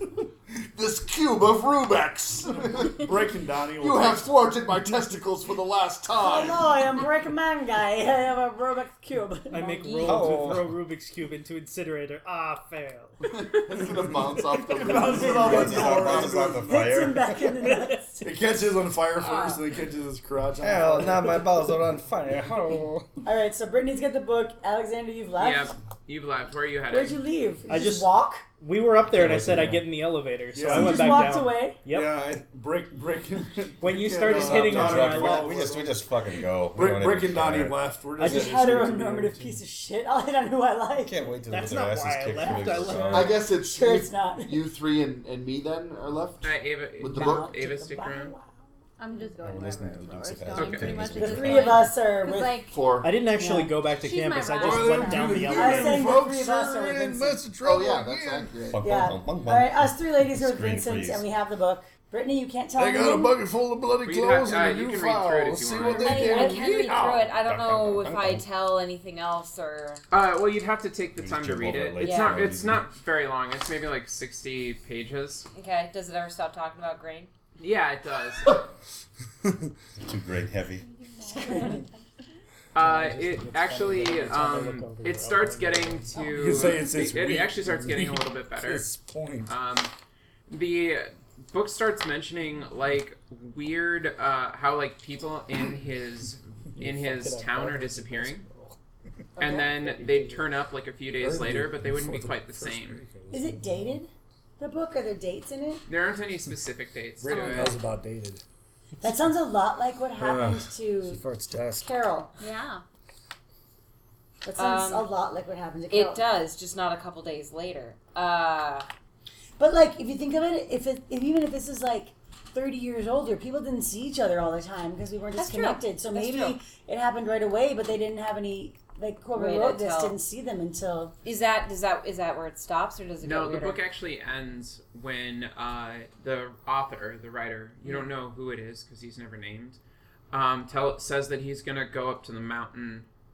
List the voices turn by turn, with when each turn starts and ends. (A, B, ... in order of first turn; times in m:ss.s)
0:00.8-0:03.1 A
0:02.7-0:04.3 B
0:03.8-0:06.7 A
0:06.2-0:10.0 C
0:09.5-0:13.2 D
0:09.6-0:10.3 E
0:10.0-0:10.8 F
0:13.2-0:16.4 A
0:13.9-0:17.2 B
0:15.3-0:17.6 F
0:15.4-0:18.3 C
0:18.2-0:21.6 B
0:19.2-0:19.6 E
0:20.6-0:23.1 F
0:23.2-0:25.7 C
0:25.4-0:27.2 G
0:26.9-0:28.4 C
0:27.7-0:32.1 D
0:29.0-0:29.9 F
0:30.5-0:31.1 B
0:30.7-0:31.8 C
0:31.9-0:39.6 B
0:33.8-0:35.6 D
0:34.3-0:37.9 F
0:38.2-0:38.6 D
0:38.2-0:41.2 C
0:41.0-0:43.4 F
0:41.5-0:43.4 D
0:43.1-0:47.6 A
0:43.4-0:44.6 C
0:46.4-0:48.3 G
0:47.1-0:48.5 C
0:49.0-0:52.8 H
0:49.4-0:51.9 F
0:50.6-0:51.1 G
0:51.1-0:52.6 C
0:52.7-0:53.1 A
0:53.0-0:56.2 D
0:53.4-0:53.8 C
0:53.9-0:55.4 H
0:54.6-0:58.6 B
0:55.3-0:57.4 C
0:57.6-0:59.1 A
0:58.7-1:01.3 F
0:58.8-1:03.4 C
1:02.8-1:07.3 B
1:04.0-1:06.6 G
1:06.0-1:10.0 E
1:07.3-1:08.4 F
1:10.1-1:15.5 G
1:11.2-1:12.9 F
1:12.0-1:12.5 E
1:15.5-1:17.3 E
1:17.6-1:18.7 G
1:20.0-1:20.8 F
1:20.8-1:21.9 H
1:22.7-1:28.9 G
1:22.8-1:26.3 D
1:26.3-1:29.5 B
1:29.5-1:29.9 G
1:30.5-1:38.4 G
1:36.8-1:38.8 B
1:39.4-1:40.5 B
1:39.4-1:39.7 E
1:39.4-1:43.0 G
1:41.1-1:44.0 B
1:43.3-1:45.8 C
1:45.9-1:47.8 G
1:47.2-1:48.4 B
1:49.0-1:52.3 C
1:50.2-1:51.9 F
1:52.4-1:52.8 H
1:54.4-1:56.2 C
1:54.6-1:55.1 E
1:55.9-1:58.9 E
1:59.6-2:11.2 C
2:05.4-2:06.6 E
2:09.3-2:10.2 E
2:11.2-2:13.8 E
2:13.2-2:19.8 G
2:20.3-2:23.1 G